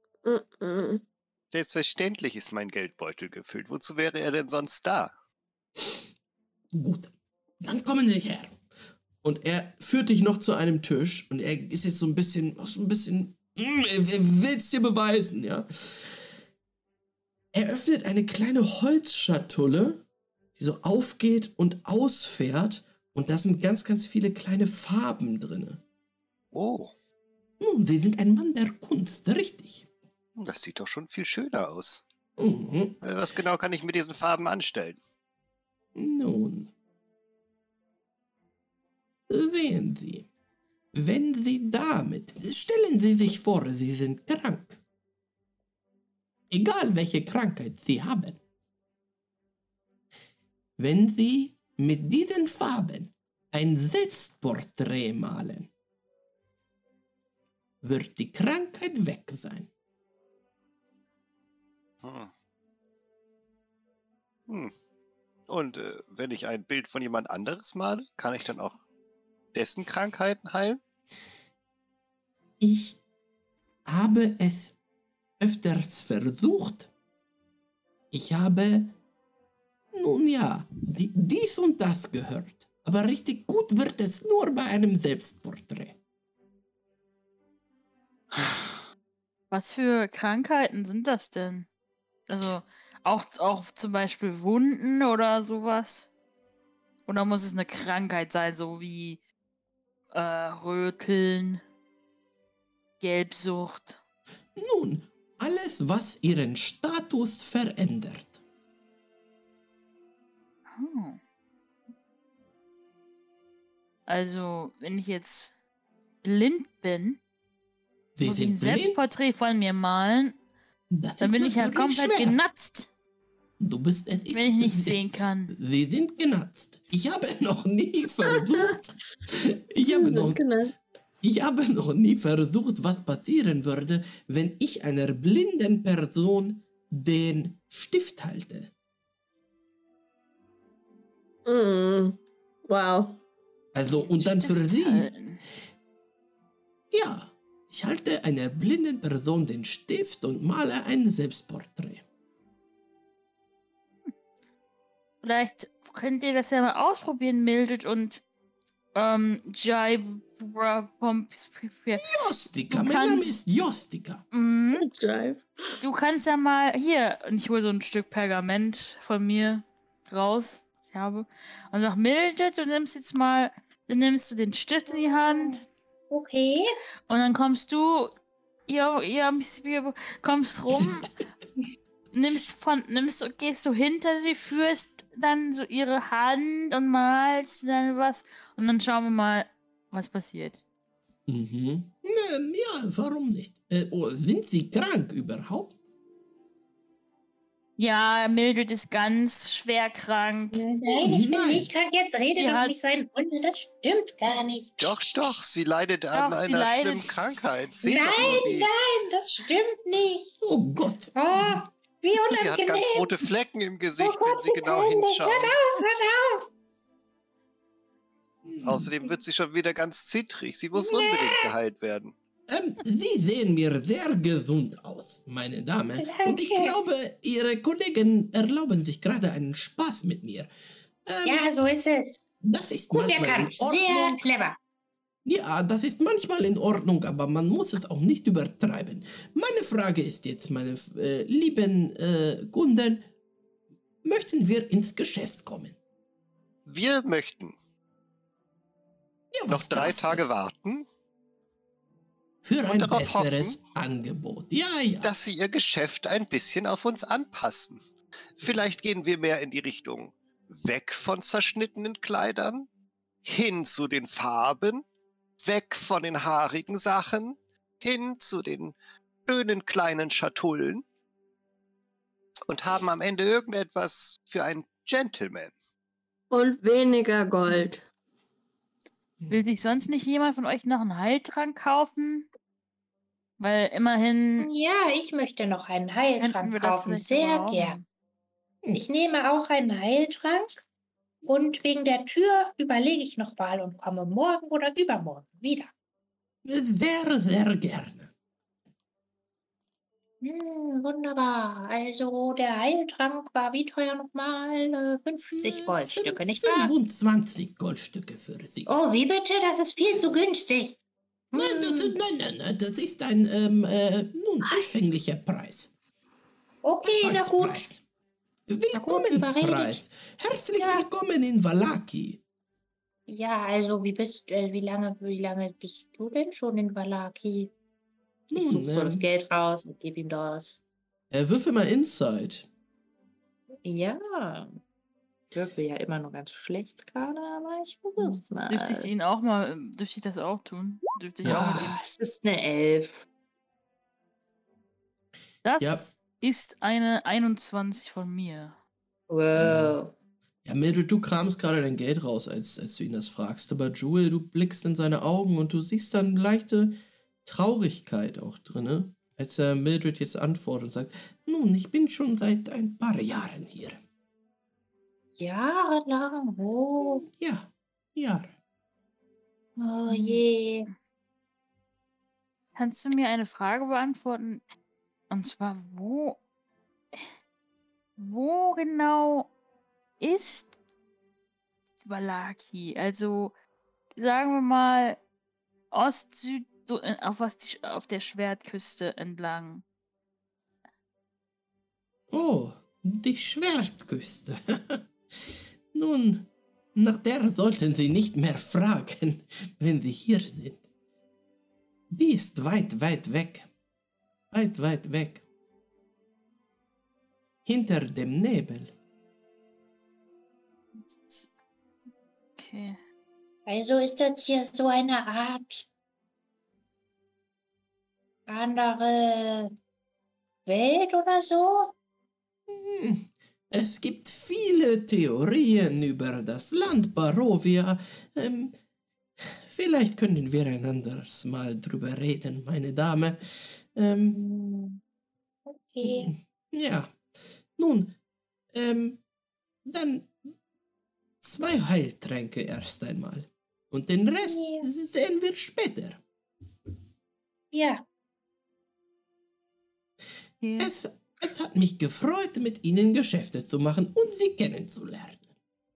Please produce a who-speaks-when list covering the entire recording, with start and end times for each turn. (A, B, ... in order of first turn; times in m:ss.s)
0:00.2-0:01.0 A
0:01.5-0:05.1 B
0:06.7-0:08.6 C
0:09.2-0:16.3 C
0:17.5-0:20.0 C
0:20.6-0:25.8 C
0:26.5-0:26.9 B
0:27.6-0:29.9 C
0:30.4-0:32.0 B
0:32.4-0:33.0 C
0:33.0-0:35.0 B
0:36.0-0:36.7 C
0:39.3-0:40.3 C
0:40.9-0:44.8 C
0:46.5-0:48.4 C
0:50.8-0:55.7 C
0:57.8-0:59.7 C
1:02.0-1:02.3 B
1:04.5-1:04.7 B
1:05.5-1:08.8 B
1:09.5-1:10.8 B
1:12.6-1:13.0 C
1:13.9-1:14.8 C
1:15.4-1:16.9 C
1:18.1-1:18.9 C
1:19.9-1:26.0 C
1:29.5-1:31.7 D
1:32.3-1:36.1 D
1:37.1-1:39.2 D
1:40.1-1:41.6 D
1:43.0-1:44.0 D
1:44.6-1:48.4 C
1:50.7-1:51.2 D
1:54.1-1:55.6 D
1:56.2-1:57.2 D
1:58.2-1:59.0 C
1:58.2-2:00.4 D
2:00.9-2:02.4 C
2:01.2-2:02.9 D
2:03.6-2:10.4 C
2:04.3-2:05.5 D
2:09.9-2:10.7 A
2:11.2-2:18.7 C
2:21.4-2:23.2 A
2:23.7-2:25.1 C
2:24.0-2:25.4 D
2:26.9-2:32.0 C
2:35.2-2:38.2 D
2:38.9-2:42.2 D
2:42.0-2:44.2 C
2:42.7-2:43.4 D
2:44.3-2:44.9 D
2:44.8-2:45.8 A
2:45.8-2:55.7 D
2:54.9-2:56.7 E
2:57.1-2:58.1 D
2:58.7-3:01.2 D
3:02.1-3:10.6 D
3:11.3-3:15.8 C
3:17.8-3:20.8 D
3:20.5-3:25.4 E
3:21.0-3:21.7 C
3:22.3-3:22.7 D
3:24.8-3:28.7 B
3:26.1-3:27.2 D
3:27.8-3:30.4 E
3:30.4-3:31.7 C
3:31.2-3:33.2 E
3:32.3-3:35.6 B
3:34.0-3:36.5 E
3:38.5-3:38.9 C
3:38.6-3:42.1 B
3:40.8-3:41.5 E
3:42.5-3:50.5 C
3:46.0-3:46.8 E
3:51.0-3:51.4 C
3:51.2-3:52.2 E
3:52.4-3:54.3 C
3:52.9-3:54.6 E
3:55.2-4:03.1 C
4:04.0-4:05.8 C
4:06.7-4:07.6 B
4:09.3-4:10.3 C
4:09.5-4:10.9 B
4:12.4-4:15.2 C
4:12.6-4:13.6 B
4:15.0-4:17.8 B
4:18.4-4:22.7 B
4:23.2-4:24.8 B
4:25.4-4:30.8 B
4:32.5-4:35.5 B
4:36.3-4:37.8 A
4:39.3-4:42.3 D
4:43.4-4:44.5 D
4:44.4-4:47.8 E
4:46.2-4:47.9 D
4:48.7-4:50.6 E
4:51.3-4:55.7 E
4:56.4-4:58.1 C
5:00.2-5:06.7 E
5:05.4-5:08.7 C
5:08.7-5:10.8 E
5:11.3-5:12.0 E
5:11.3-5:15.7 C
5:14.4-5:14.7 E
5:16.6-5:17.7 E
5:16.8-5:17.8 C
5:18.5-5:22.2 C
5:18.7-5:19.8 E
5:20.6-5:20.9 E
5:23.1-5:27.5 E
5:28.3-5:29.1 C
5:28.3-5:30.6 E
5:31.1-5:32.5 C
5:33.6-5:34.5 E
5:35.3-5:38.8 E
5:38.0-5:41.9 D
5:41.2-5:41.7 C
5:41.3-5:43.0 E
5:45.4-5:48.6 D
5:45.6-5:45.9 C
5:49.1-5:49.9 E
5:49.3-5:49.8 C
5:50.4-6:03.8 C
6:05.2-6:07.0 E
6:06.8-6:08.3 C
6:09.6-6:10.7 E
6:09.9-6:10.2 D
6:12.6-6:14.4 D
6:15.1-6:16.2 D
6:18.0-6:19.3 D
6:20.0-6:20.6 D
6:21.9-6:23.3 D
6:24.0-6:25.0 D
6:25.7-6:29.6 D
6:32.1-6:40.6 C
6:41.9-6:43.5 C
6:44.3-6:45.2 C
6:47.4-6:48.7 C
6:50.8-6:51.3 D
6:52.4-6:52.8 D
6:53.4-6:55.6 E
6:58.3-6:59.5 E
7:00.4-7:01.7 E
7:02.5-7:08.6 C
7:09.2-7:14.2 C
7:14.1-7:14.8 E
7:15.5-7:16.1 E
7:15.8-7:17.0 C
7:17.6-7:18.0 C
7:18.5-7:19.0 C
7:19.6-7:20.2 C
7:21.2-7:26.0 C
7:24.2-7:24.6 E
7:27.5-7:27.8 E
7:30.4-7:30.7 D
7:30.6-7:35.3 C